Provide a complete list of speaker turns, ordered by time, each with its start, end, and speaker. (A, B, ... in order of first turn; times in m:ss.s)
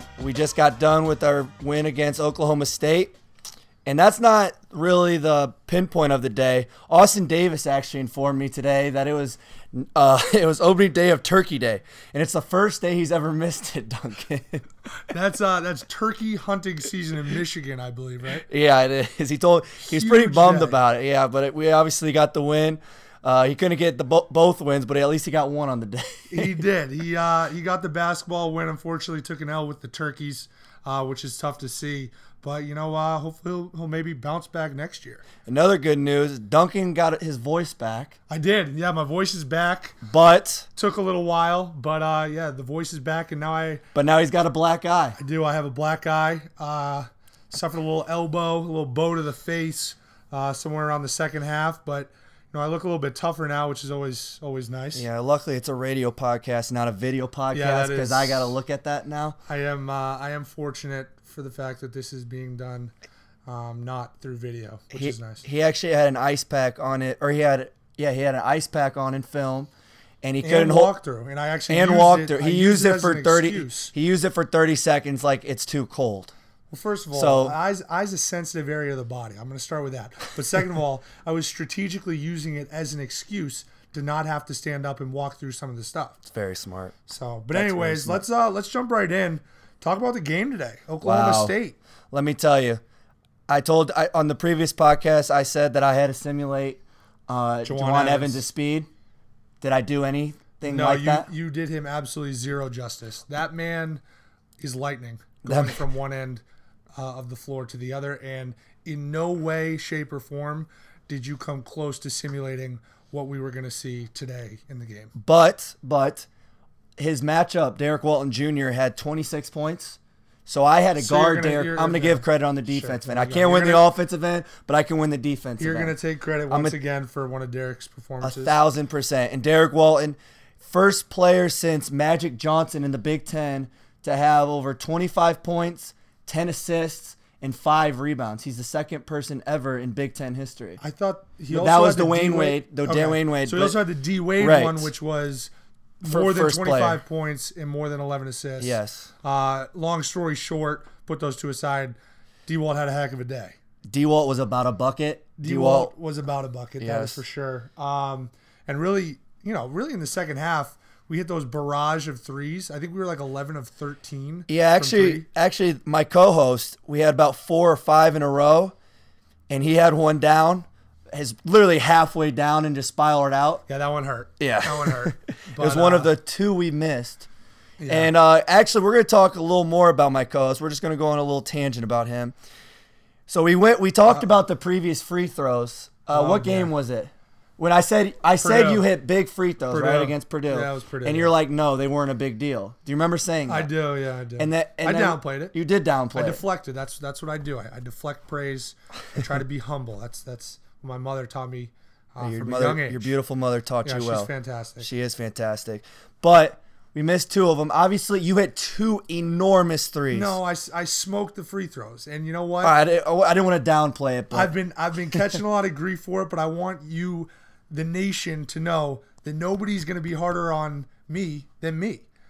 0:00.2-0:03.2 A
0:03.8-0:14.6 A
0:15.1-0:18.5 B
0:18.5-0:26.6 A
0:19.9-0:20.8 B
0:26.3-0:35.2 B
0:35.4-0:38.2 A
0:38.3-0:40.0 B
0:40.0-0:40.7 A
0:40.8-0:43.8 B
0:44.0-0:45.2 A
0:45.2-0:55.1 B
0:54.9-0:59.4 A
0:57.5-0:58.5 B
0:59.5-1:02.9 B
1:03.5-1:05.4 B
1:04.9-1:09.7 A
1:10.2-1:10.9 A
1:10.4-1:13.9 B
1:11.7-1:16.3 A
1:16.7-1:26.2 B
1:17.1-1:17.6 A
1:26.2-1:27.0 A
1:27.1-1:31.8 B
1:27.5-1:28.2 A
1:31.0-1:31.6 A
1:32.1-1:32.8 A
1:33.5-1:38.9 A
1:37.6-1:38.4 B
1:39.6-1:41.3 A
1:40.7-1:44.0 B
1:44.6-1:46.4 B
1:45.4-1:45.9 A
1:47.0-1:55.1 B
1:55.2-1:56.3 A
1:57.0-2:05.9 A
2:01.0-2:03.9 B
2:05.6-2:08.6 B
2:06.5-2:06.8 A
2:08.2-2:20.8 A
2:20.8-2:33.6 B
2:21.5-2:23.8 A
2:24.4-2:24.9 A
2:26.0-2:27.0 A
2:28.6-2:29.1 A
2:33.9-2:35.9 A
2:35.4-2:45.3 B
2:36.8-2:37.2 A
2:44.5-2:48.8 A
2:49.5-2:53.6 A
2:53.7-2:56.1 B
2:54.4-2:57.3 A
2:57.8-2:58.1 B
2:57.9-3:02.4 A
3:03.3-3:13.7 A
3:06.1-3:06.7 B
3:08.4-3:08.9 B
3:09.7-3:11.3 B
3:13.5-3:15.6 B
3:14.4-3:16.4 A
3:16.1-3:23.1 B
3:22.2-3:30.4 A
3:23.8-3:24.9 B
3:30.1-3:32.8 B
3:32.6-3:34.5 A
3:34.3-3:42.1 B